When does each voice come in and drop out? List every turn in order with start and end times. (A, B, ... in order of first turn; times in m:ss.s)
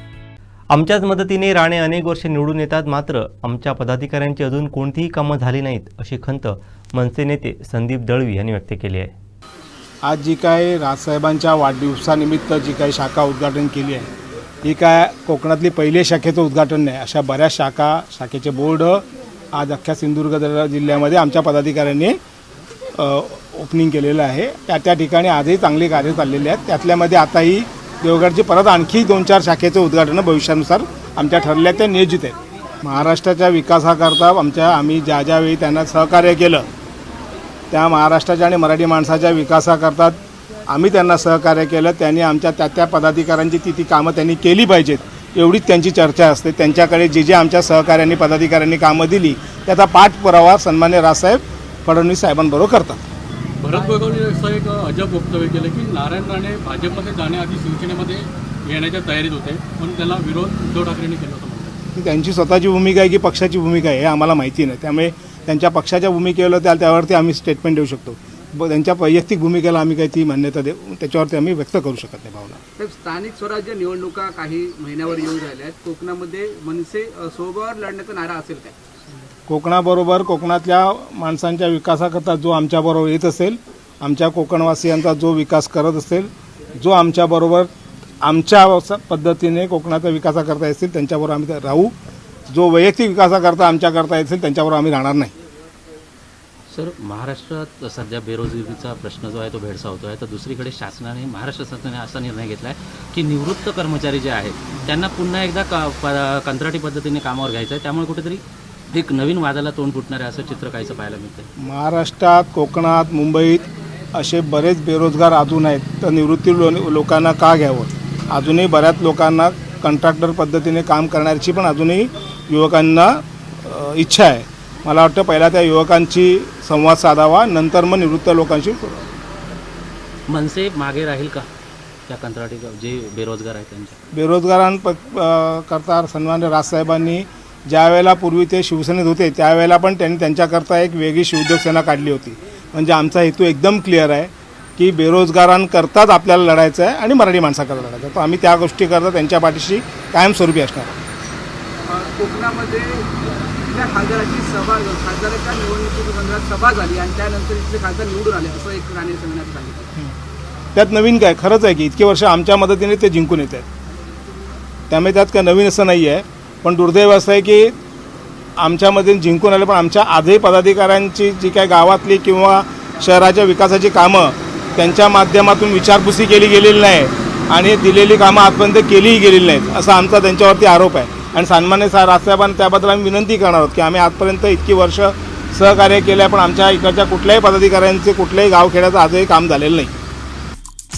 0:00.7-0:09.1 A
0:10.0-0:14.1 B
0:14.6-0:22.2 B
0:22.9-0:36.6 B
0:37.7-0:40.2 B
0:40.7-0:53.0 B
0:53.6-1:01.7 C
1:01.9-1:12.6 B
1:12.8-1:18.8 D
1:19.5-1:27.7 B
1:28.2-1:31.9 B
1:32.5-1:35.3 B
1:36.7-1:51.5 E
1:51.6-2:09.0 B
2:10.3-2:11.4 E
2:12.1-2:14.0 E
2:14.1-2:31.0 B
2:31.8-2:39.9 D
2:40.7-2:43.7 B
2:44.9-2:47.7 B
2:48.6-3:09.9 B